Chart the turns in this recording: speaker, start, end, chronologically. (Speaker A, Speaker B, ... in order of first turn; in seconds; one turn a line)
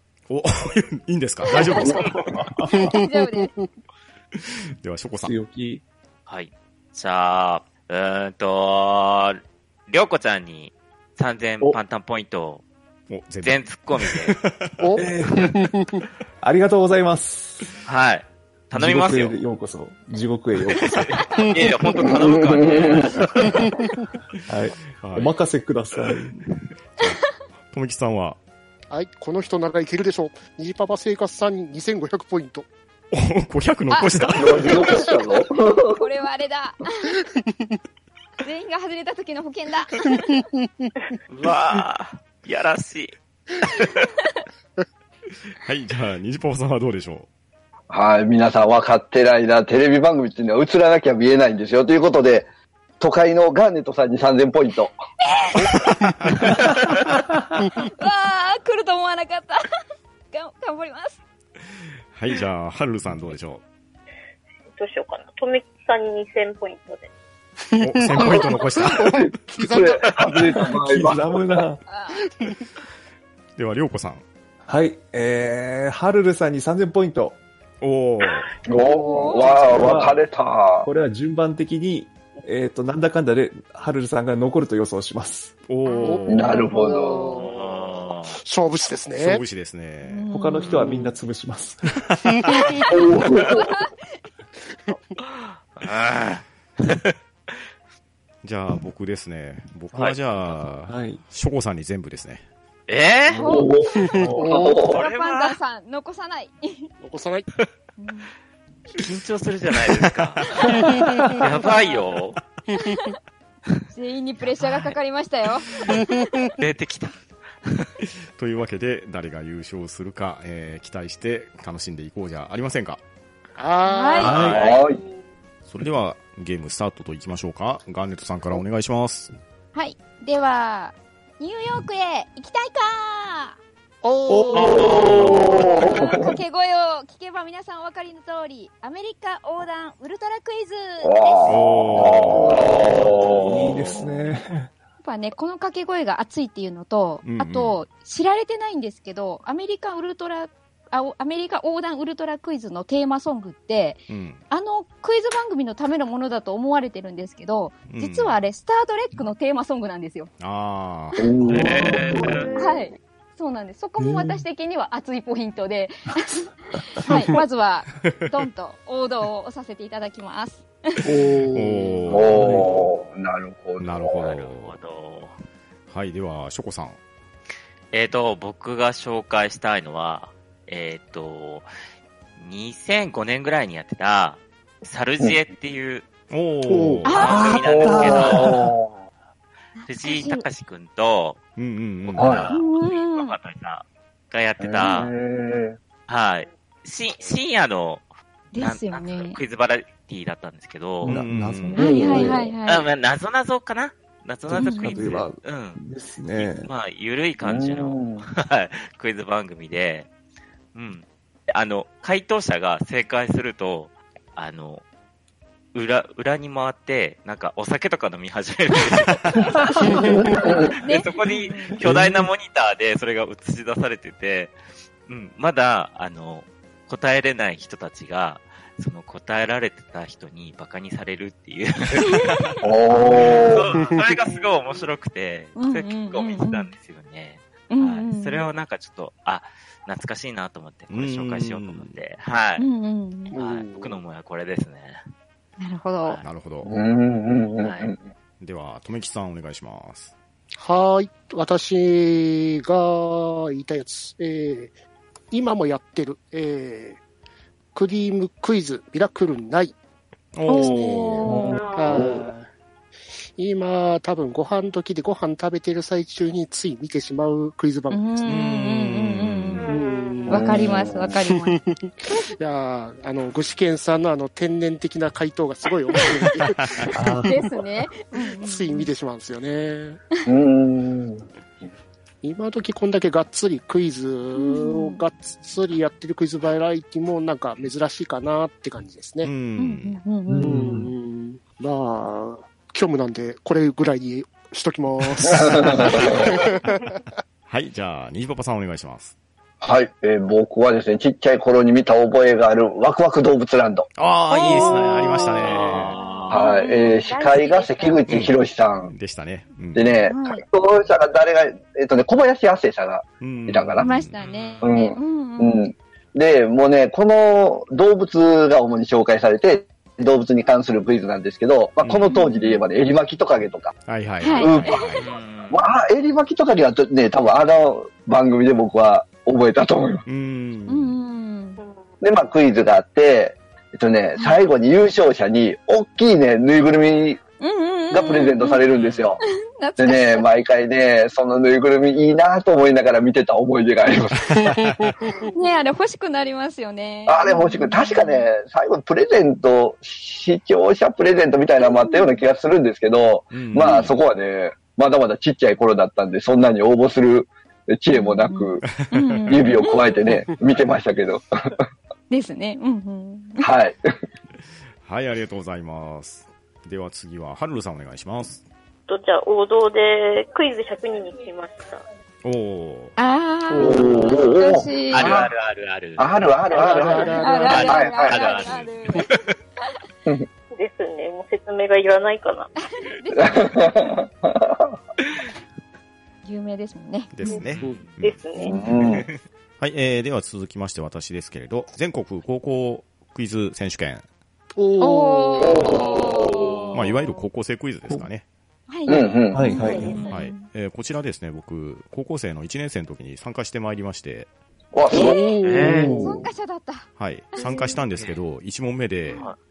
Speaker A: 0.3-2.2
Speaker B: 1.5-2.1
Speaker C: 2.2-2.9
Speaker B: 2.8-3.5
Speaker A: 4.8-5.3
Speaker C: 5.2-5.8
Speaker D: 6.3-12.6
Speaker A: 13.1-14.8
Speaker D: 13.4-14.4
Speaker E: 14.8-16.0
Speaker C: 14.9-15.5
Speaker C: 16.4-17.7
Speaker D: 17.9-19.4
Speaker C: 18.7-21.3
Speaker D: 20.7-23.7
Speaker E: 21.4-22.1
Speaker F: 22.3-22.9
Speaker E: 23.5-23.7
Speaker C: 24.5-26.4
Speaker A: 24.9-25.3
Speaker A: 27.0-28.4
Speaker E: 28.9-32.7
Speaker A: 33.1-34.8
Speaker B: 33.9-37.1
Speaker F: 34.4-36.0
Speaker B: 38.4-40.1
Speaker D: 41.3-44.1
Speaker A: 45.5-47.3
Speaker F: 47.9-52.5
Speaker F: 53.0-54.9
Speaker A: 55.7-56.5
Speaker B: 58.0-59.6
Speaker B: 60.3-61.2
Speaker A: 62.1-63.6
Speaker G: 64.8-67.1
Speaker E: 67.7-70.6
Speaker A: 67.8-69.1
Speaker F: 69.6-71.4
Speaker C: 70.8-71.8
Speaker B: 71.9-72.2
Speaker A: 73.6-74.2
Speaker C: 74.7-77.4
Speaker A: 77.8-78.5
Speaker F: 78.7-80.9
Speaker B: 78.8-79.8
Speaker C: 79.4-80.2
Speaker C: 80.8-85.7
Speaker A: 85.7-86.7
Speaker B: 85.8-87.5
Speaker E: 86.0-89.5
Speaker F: 86.3-87.3
Speaker D: 87.4-88.4
Speaker A: 89.2-90.3
Speaker B: 90.0-91.2
Speaker C: 90.3-92.0
Speaker A: 92.1-92.4
Speaker B: 92.5-93.9
Speaker F: 92.9-93.7
Speaker E: 94.9-95.2
Speaker D: 95.3-97.1
Speaker A: 98.4-102.4
Speaker C: 100.9-101.2
Speaker D: 102.9-103.4
Speaker B: 103.3-103.7
Speaker F: 103.4-105.0
Speaker E: 104.0-104.9
Speaker C: 104.2-104.5
Speaker B: 104.8-106.9
Speaker D: 104.9-105.6
Speaker E: 107.0-107.5
Speaker B: 108.0-108.3
Speaker D: 108.9-112.4
Speaker B: 113.9-116.4
Speaker D: 116.6-117.9
Speaker A: 118.4-123.0
Speaker E: 123.6-124.5
Speaker B: 123.8-124.4
Speaker D: 124.2-124.8
Speaker C: 124.2-124.6
Speaker F: 124.5-125.0
Speaker G: 124.9-125.2
Speaker A: 125.7-129.3
Speaker B: 129.7-133.6
Speaker E: 134.0-135.7
Speaker C: 134.3-134.9
Speaker F: 134.6-136.3
Speaker B: 135.2-141.5
Speaker F: 141.0-144.0
Speaker A: 141.4-142.5
Speaker C: 142.5-144.7
Speaker B: 145.0-160.3
Speaker A: 147.2-147.8
Speaker A: 154.1-154.4
Speaker A: 157.9-158.4
Speaker A: 160.4-161.3
Speaker F: 161.2-162.5
Speaker C: 161.4-162.4
Speaker D: 161.5-162.5
Speaker E: 162.3-162.8
Speaker B: 162.6-170.7
Speaker C: 164.0-164.4
Speaker E: 171.1-172.0
Speaker A: 171.5-172.5
Speaker F: 172.1-174.4
Speaker C: 172.2-172.9
Speaker A: 173.8-174.8
Speaker D: 174.2-175.3
Speaker A: 175.9-177.0
Speaker D: 177.9-181.7
Speaker D: 182.4-186.1
Speaker A: 186.3-187.3
Speaker C: 186.7-188.7
Speaker B: 187.1-187.4
Speaker D: 187.1-188.6
Speaker F: 187.4-189.0
Speaker B: 189.8-190.4
Speaker D: 189.8-191.4
Speaker A: 191.6-192.5
Speaker D: 192.1-195.1
Speaker F: 192.1-192.5
Speaker B: 192.5-193.4
Speaker F: 194.6-195.8
Speaker D: 196.1-201.2
Speaker B: 198.5-199.4
Speaker C: 201.0-202.6
Speaker A: 201.0-202.1
Speaker B: 201.8-202.9
Speaker F: 202.0-202.4
Speaker D: 202.7-205.8
Speaker C: 204.5-206.7
Speaker B: 204.5-205.0
Speaker D: 206.4-210.1
Speaker F: 207.4-208.2
Speaker D: 210.8-214.8
Speaker D: 215.7-224.6
Speaker B: 219.8-221.8
Speaker C: 221.8-222.3
Speaker D: 225.1-242.7
Speaker B: 232.0-232.5
Speaker F: 232.6-233.7
Speaker E: 233.2-234.2
Speaker B: 235.6-236.7
Speaker B: 237.7-238.4
Speaker A: 240.9-241.9
Speaker B: 242.6-243.4
Speaker E: 243.3-244.0
Speaker D: 243.3-245.0
Speaker B: 245.6-246.2
Speaker A: 246.2-246.7
Speaker F: 246.7-248.0
Speaker D: 247.6-247.9
Speaker A: 248.4-250.1
Speaker E: 250.6-254.7
Speaker E: 255.3-257.0
Speaker E: 257.7-259.8
Speaker A: 260.3-261.3
Speaker B: 260.5-261.7
Speaker E: 260.5-262.5
Speaker F: 261.3-262.3
Speaker G: 261.5-262.1
Speaker E: 263.4-268.4
Speaker B: 267.9-269.6
Speaker A: 268.3-269.7
Speaker G: 269.6-270.2
Speaker E: 269.7-270.6
Speaker B: 270.3-272.3
Speaker F: 270.3-271.1
Speaker E: 271.1-277.4
Speaker A: 276.4-276.9
Speaker C: 276.9-277.4
Speaker B: 277.2-278.9
Speaker E: 278.2-280.0
Speaker F: 280.3-281.2
Speaker E: 282.2-289.3
Speaker B: 284.3-285.0
Speaker A: 289.2-290.0
Speaker B: 289.6-290.6
Speaker C: 290.3-290.9
Speaker E: 290.4-297.0
Speaker F: 295.3-296.2
Speaker A: 297.5-299.1
Speaker F: 299.6-303.9
Speaker A: 304.0-306.0
Speaker B: 304.3-308.1
Speaker D: 304.5-306.4
Speaker F: 306.3-308.9
Speaker A: 308.1-308.3
Speaker A: 308.9-310.0
Speaker F: 309.8-313.9
Speaker B: 310.1-310.4
Speaker A: 313.2-314.2
Speaker B: 313.8-315.6
Speaker D: 314.2-314.7
Speaker F: 314.6-323.8
Speaker A: 321.8-322.1
Speaker B: 322.1-322.6
Speaker A: 323.9-325.1
Speaker B: 324.2-324.9
Speaker F: 324.4-325.0
Speaker D: 325.0-325.7
Speaker F: 325.5-330.0
Speaker A: 330.1-330.9
Speaker B: 330.7-331.6
Speaker F: 332.0-337.2
Speaker B: 337.4-338.6
Speaker F: 337.9-339.2
Speaker D: 338.7-339.1
Speaker B: 339.6-340.3
Speaker F: 339.8-344.3
Speaker A: 344.3-344.9
Speaker E: 344.9-345.2
Speaker B: 345.3-348.3
Speaker F: 347.1-358.6
Speaker A: 353.3-354.0
Speaker B: 357.9-359.8
Speaker A: 358.7-359.4
Speaker F: 359.3-361.2
Speaker B: 362.1-363.5
Speaker F: 363.4-363.8
Speaker A: 364.8-368.4
Speaker G: 368.9-371.8
Speaker A: 372.2-372.9
Speaker B: 373.0-375.1
Speaker E: 373.5-374.1
Speaker F: 373.6-375.3
Speaker D: 374.9-376.1
Speaker F: 376.0-378.4
Speaker E: 376.5-377.9
Speaker B: 377.2-379.1
Speaker D: 377.5-379.2
Speaker G: 380.5-382.6
Speaker B: 382.8-383.6
Speaker F: 383.2-384.6
Speaker B: 386.2-387.4
Speaker A: 387.1-388.2
Speaker D: 387.6-387.9
Speaker E: 387.6-387.9
Speaker G: 388.0-388.6
Speaker F: 388.4-389.1
Speaker D: 388.8-389.2
Speaker A: 389.6-394.1
Speaker E: 394.6-396.3
Speaker B: 394.8-397.2
Speaker F: 395.4-396.5
Speaker A: 396.7-398.2
Speaker B: 398.7-400.4
Speaker F: 398.9-399.9
Speaker C: 399.3-400.1
Speaker A: 400.1-404.3
Speaker F: 404.7-405.3
Speaker E: 404.9-406.1
Speaker D: 405.4-406.0
Speaker C: 405.6-406.3
Speaker B: 405.9-407.8
Speaker A: 407.0-409.3
Speaker D: 409.1-409.4